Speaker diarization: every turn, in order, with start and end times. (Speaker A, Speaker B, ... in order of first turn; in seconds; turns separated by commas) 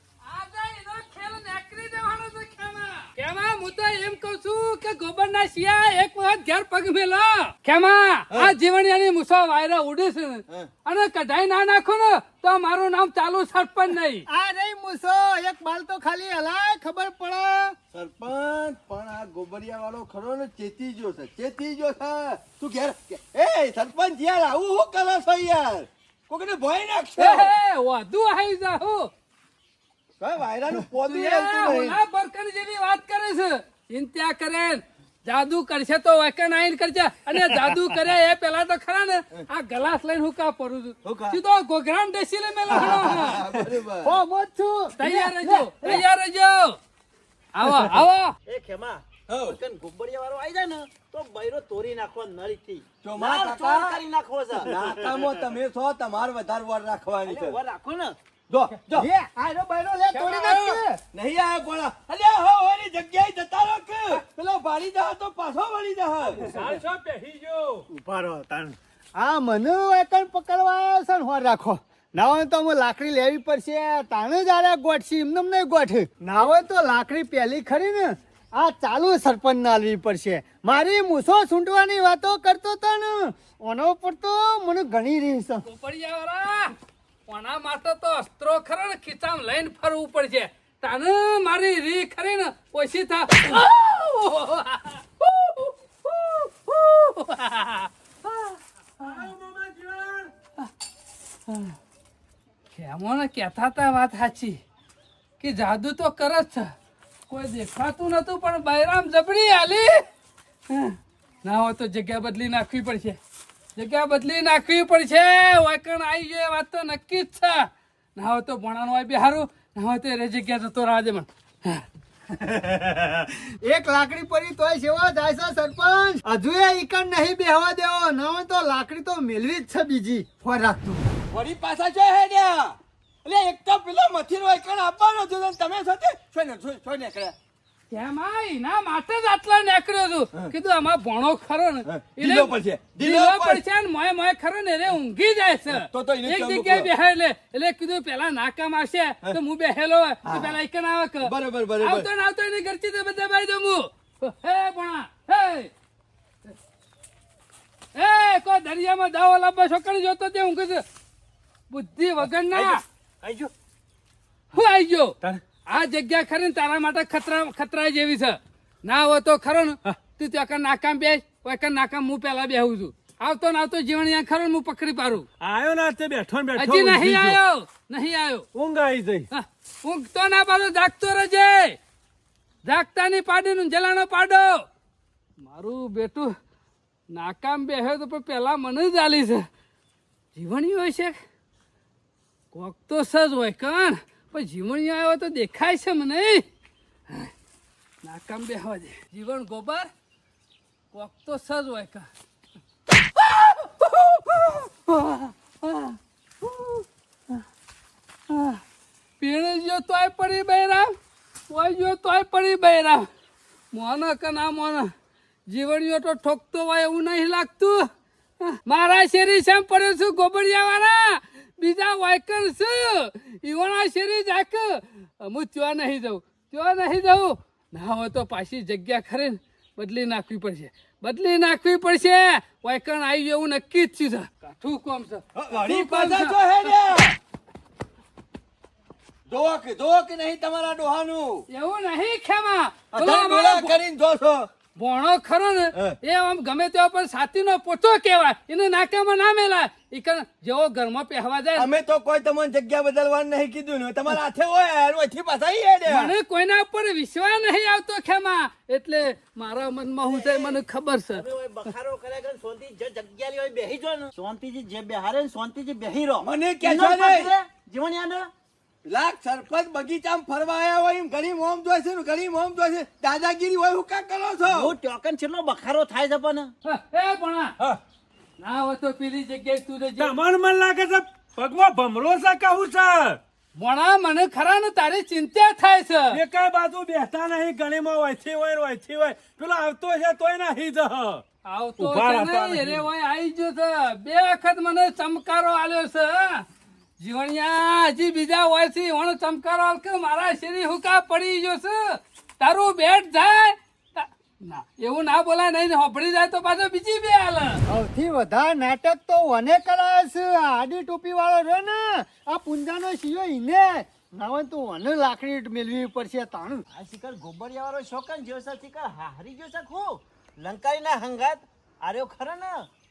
Speaker A: 0.2-14.3, Speaker B: 14.3-17.8, Speaker C: 17.9-27.5, Speaker A: 27.2-29.1, Speaker C: 30.2-32.0, Speaker A: 31.1-43.4, Speaker C: 41.0-41.4, Speaker C: 42.7-44.2, Speaker B: 42.8-45.9, Speaker A: 45.0-46.8, Speaker A: 47.5-48.4, Speaker D: 48.5-55.3, Speaker C: 49.3-49.6, Speaker C: 53.0-54.0, Speaker C: 54.6-57.6, Speaker D: 57.2-58.2, Speaker C: 58.5-59.1, Speaker B: 58.9-61.0, Speaker C: 60.1-66.4, Speaker E: 66.4-67.9, Speaker B: 66.4-66.7, Speaker B: 67.9-85.6, Speaker A: 85.7-86.7, Speaker A: 87.3-98.6, Speaker E: 99.0-100.3, Speaker A: 101.5-101.8, Speaker A: 102.7-104.6, Speaker A: 105.4-106.7, Speaker A: 107.3-110.0, Speaker A: 110.7-113.2, Speaker A: 113.8-121.8, Speaker B: 122.3-131.2, Speaker C: 131.3-137.3, Speaker A: 137.9-155.7, Speaker C: 141.9-143.6, Speaker C: 145.7-146.9, Speaker C: 150.2-150.6, Speaker C: 151.2-152.1, Speaker A: 157.9-160.8, Speaker A: 161.7-162.8, Speaker E: 162.5-163.5, Speaker A: 164.5-175.3, Speaker E: 175.4-177.4, Speaker A: 176.6-178.5, Speaker E: 178.5-179.3, Speaker A: 179.3-181.8, Speaker A: 182.7-184.6, Speaker A: 185.4-186.3, Speaker A: 187.1-189.5, Speaker A: 190.3-191.2, Speaker A: 192.5-196.4, Speaker A: 198.0-199.9, Speaker A: 200.9-202.1, Speaker A: 203.2-207.4, Speaker A: 208.3-208.6, Speaker A: 209.2-210.9, Speaker A: 211.5-213.1, Speaker A: 213.7-214.9, Speaker A: 215.5-217.9, Speaker A: 218.4-236.4, Speaker C: 235.3-237.2, Speaker C: 239.3-241.4, Speaker A: 241.5-243.8, Speaker C: 242.9-244.5, Speaker A: 244.8-251.7, Speaker C: 251.6-256.1, Speaker A: 255.9-261.3, Speaker D: 260.0-268.3, Speaker C: 266.2-267.3, Speaker C: 268.9-274.7, Speaker D: 274.5-276.5, Speaker A: 276.6-277.5, Speaker A: 278.4-280.1, Speaker E: 280.0-283.2, Speaker A: 283.6-286.2, Speaker E: 286.1-291.2, Speaker A: 291.4-296.5, Speaker E: 291.8-292.9, Speaker A: 297.0-307.6, Speaker B: 307.7-316.6, Speaker D: 316.7-322.7